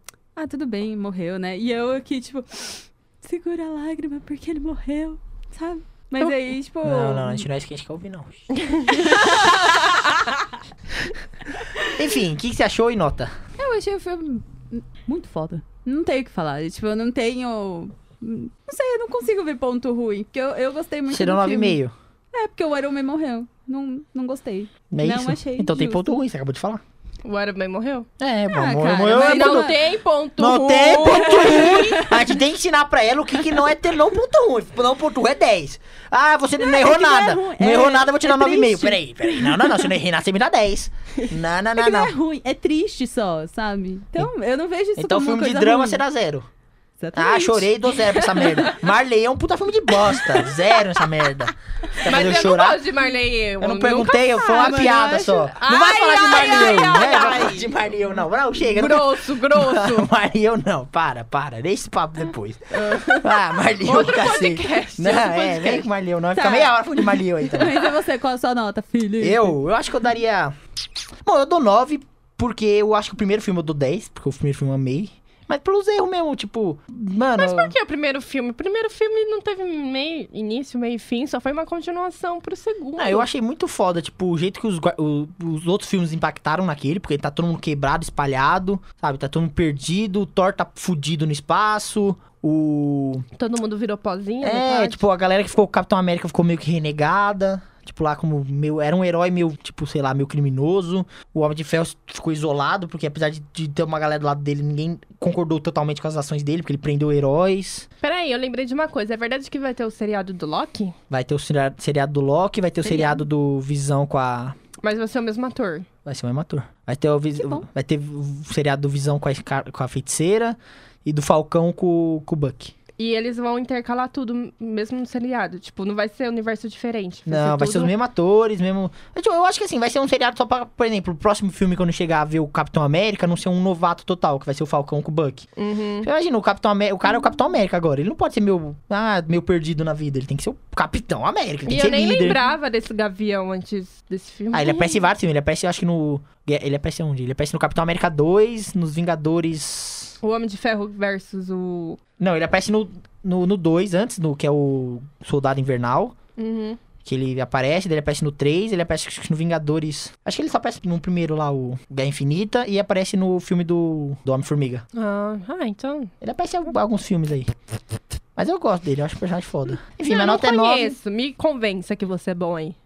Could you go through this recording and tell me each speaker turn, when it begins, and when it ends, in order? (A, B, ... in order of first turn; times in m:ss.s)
0:00.4-0:07.5 A
0:06.8-0:08.4 B
0:08.9-0:09.6 A
0:11.6-0:11.9 A
0:11.9-0:13.3 B
0:13.6-0:21.8 A
0:21.1-0:21.9 B
0:22.3-0:26.1 A
0:24.9-0:26.8 B
0:27.2-0:28.1 C
0:28.2-0:29.8 B
0:28.5-0:29.8 A
0:29.2-0:32.1 C
0:30.4-0:42.2 B
0:31.6-0:32.2 A
0:36.6-0:39.9 A
0:41.8-0:46.0 A
0:45.0-0:46.5 B
0:47.0-0:48.4 A
0:47.2-0:52.8 B
0:48.2-0:48.8 C
0:50.2-0:50.5 C
0:52.0-0:57.7 C
0:53.6-1:07.9 B
0:54.2-0:55.6 A
0:56.3-0:57.1 A
0:58.7-1:00.1 C
1:02.7-1:05.9 C
1:06.3-1:09.6 A
1:09.2-1:10.6 B
1:11.2-1:17.7 B
1:17.4-1:23.3 C
1:23.0-1:33.3 B
1:33.4-1:35.0 C
1:34.4-1:47.9 B
1:48.0-1:51.0 C
1:51.1-1:54.6 B
1:52.8-1:53.2 C
1:54.8-1:55.9 C
1:56.0-2:02.7 B
2:03.0-2:07.9 C
2:07.3-2:15.4 B
2:15.6-2:16.1 C
2:16.0-2:22.4 B
2:21.7-2:25.1 C
2:24.5-2:30.2 B
2:30.2-2:32.0 C
2:32.2-2:36.2 B
2:36.4-2:36.8 C
2:37.0-2:44.9 B
2:44.9-2:46.1 C
2:46.2-2:47.5 B
2:48.4-2:51.0 B
2:50.1-2:52.8 C